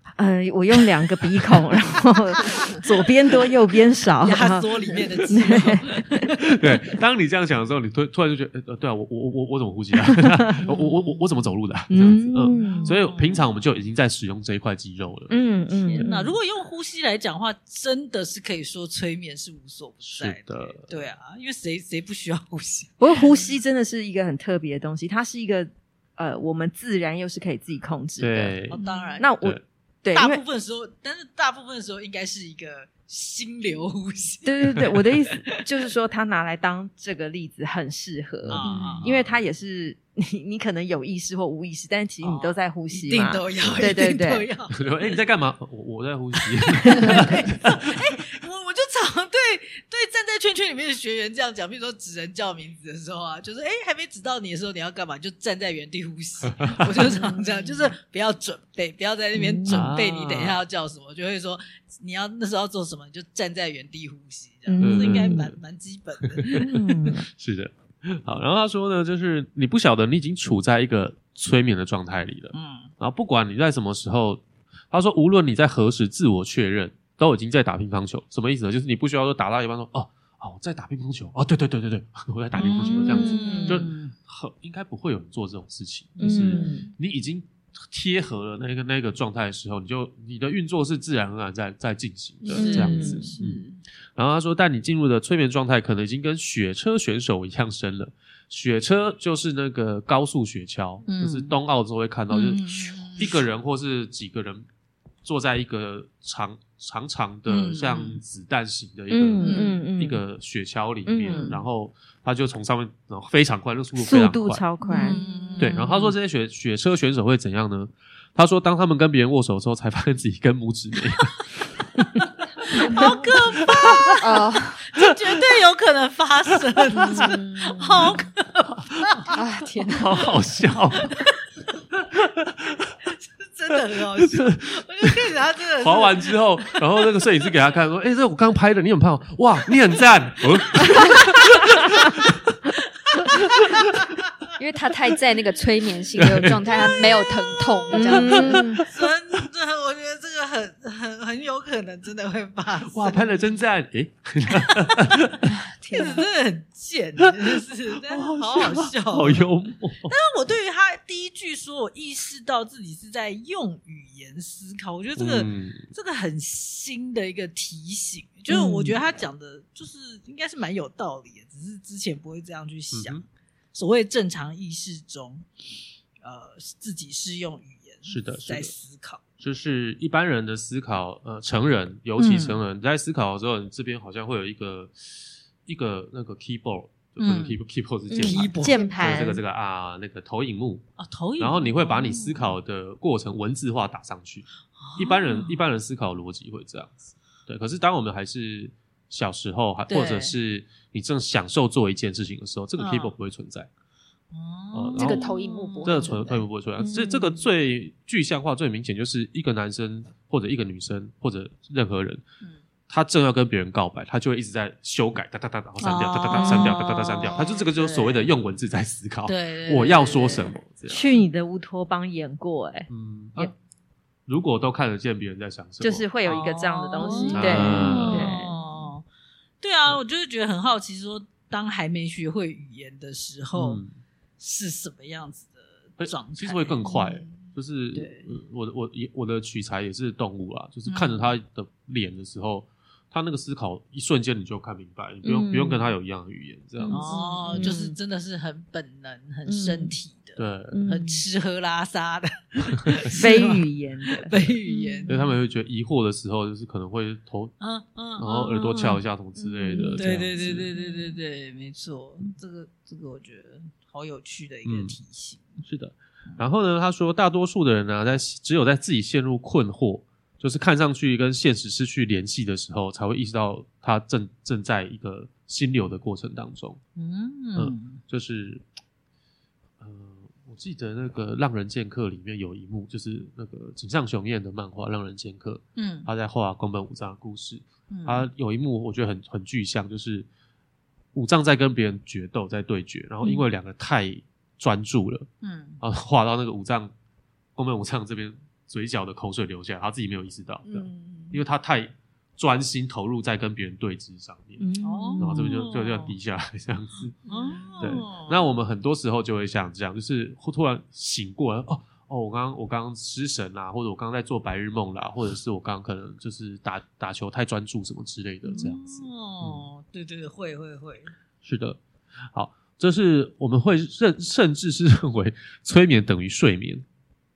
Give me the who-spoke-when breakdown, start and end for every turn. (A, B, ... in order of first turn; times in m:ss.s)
0:00.2-0:06.3 A
0:04.2-0:06.7 B
0:06.5-0:15.4 C
0:10.1-0:10.8 A
0:11.9-0:12.9 A
0:12.5-0:13.5 B
0:15.3-0:16.1 A
0:15.9-0:23.5 B
0:20.1-0:20.9 C
0:23.0-0:28.6 A
0:28.2-0:28.8 C
0:28.7-0:29.3 B
0:28.8-0:29.2 D
0:29.2-0:30.4 A
0:30.1-0:35.4 B
0:34.4-0:44.5 A
0:38.4-0:39.4 C
0:38.5-0:39.1 B
0:42.2-0:45.1 B
0:43.6-0:43.9 C
0:44.7-0:47.9 C
0:46.4-1:06.7 B
0:56.6-0:56.9 C
0:57.0-0:57.9 A
0:59.3-0:59.9 A
0:59.7-1:00.6 C
1:04.6-1:05.4 A
1:04.8-1:05.6 C
1:06.4-1:06.7 C
1:06.6-1:07.2 A
1:07.3-1:33.6 C
1:12.5-1:12.9 B
1:22.6-1:24.1 B
1:23.0-1:23.6 D
1:23.1-1:23.8 A
1:26.2-1:26.8 A
1:26.5-1:26.8 D
1:32.4-1:33.6 D
1:32.5-1:33.3 B
1:32.5-1:33.3 A
1:34.2-1:44.6 C
1:41.1-1:41.5 B
1:42.3-1:43.4 B
1:45.2-1:54.6 C
1:47.5-1:48.2 B
1:49.1-1:50.2 A
1:49.4-1:49.8 B
1:49.4-1:49.7 D
1:51.0-1:51.5 A
1:54.0-1:55.2 A
1:54.8-1:55.8 D
1:54.9-1:56.1 B
1:55.6-2:01.4 C
2:02.6-2:03.0 C
2:02.7-2:09.3 B
2:02.8-2:03.1 D
2:03.6-2:04.1 C
2:04.2-2:04.8 D
2:05.0-2:05.4 C
2:06.9-2:07.2 C
2:07.0-2:08.0 D
2:07.1-2:07.8 A
2:08.7-2:09.3 C
2:09.3-2:10.3 D
2:09.8-2:11.2 C
2:10.9-2:11.4 B
2:11.9-2:12.9 C
2:13.4-2:17.0 B
2:13.7-2:15.2 C
2:15.8-2:22.6 C
2:23.1-2:23.9 B
2:23.2-2:23.8 C
2:24.6-2:28.8 D
2:26.2-2:26.8 C
2:26.6-2:33.6 B
2:27.9-2:28.8 A
2:28.4-2:28.8 C
2:32.9-2:35.4 C
2:34.5-2:35.4 B
2:35.5-2:36.2 D
2:35.9-2:39.5 B
2:37.2-2:40.1 C
2:40.0-2:53.2 B
2:45.2-2:45.9 C
2:48.5-2:49.0 A
2:52.9-2:53.2 C
2:53.7-2:55.5 B
2:56.2-2:59.2 B
2:58.0-2:58.7 C
2:59.4-3:04.9 C
3:02.2-3:02.6 B
3:05.6-3:10.8 C
3:07.2-3:07.6 B
3:08.1-3:09.4 A
3:08.2-3:09.2 B
3:11.0-3:12.4 B
3:11.4-3:16.9 C
3:14.8-3:15.6 B
3:17.5-3:23.7 C
3:19.9-3:20.4 B
3:22.8-3:23.1 B
3:24.3-3:26.2 B
3:24.7-3:25.3 C
3:25.0-3:26.4 D
3:25.8-3:32.2 C
3:26.8-3:27.4 A
3:32.9-3:41.1 C
3:35.8-3:37.7 B
3:36.3-3:36.8 A
3:37.7-3:38.2 A
3:39.2-3:40.5 B
3:40.9-3:43.5 A
3:42.9-3:43.5 C
3:44.3-3:46.0 C
3:45.8-3:48.6 A
3:46.2-3:49.0 B
3:47.0-3:48.4 D
3:47.3-3:48.3 C
3:49.6-3:53.8 B
3:53.5-3:53.9 C
3:54.4-3:57.3 B
3:56.0-4:07.1 C
3:57.9-3:58.2 B
4:00.9-4:01.3 B
4:05.2-4:05.9 A
4:06.8-4:07.9 A
4:06.9-4:15.1 B
4:07.1-4:07.7 D
4:09.5-4:09.9 A
4:10.4-4:10.8 C
4:10.7-4:11.2 A
4:13.2-4:15.1 A
4:15.1-4:17.5 C
4:17.6-4:19.0 B
4:18.2-4:20.7 C
4:19.6-4:20.0 A
4:20.0-4:25.6 B
4:24.6-4:25.0 C
4:25.6-4:36.8 C
4:37.0-4:38.0 B
4:37.5-4:38.6 C
4:39.8-4:50.3 C
4:45.8-4:46.1 B
4:47.9-4:48.2 B
4:51.1-4:55.3 C
4:55.4-4:55.8 B
4:55.8-4:56.9 C
4:57.6-5:04.6 C
5:00.7-5:01.4 D
5:04.6-5:05.6 A
5:04.8-5:06.1 B
5:05.2-5:07.2 C
5:07.2-5:08.5 B
5:07.8-5:19.6 C
5:18.5-5:21.1 B
5:21.4-5:21.8 C
5:22.3-5:26.8 C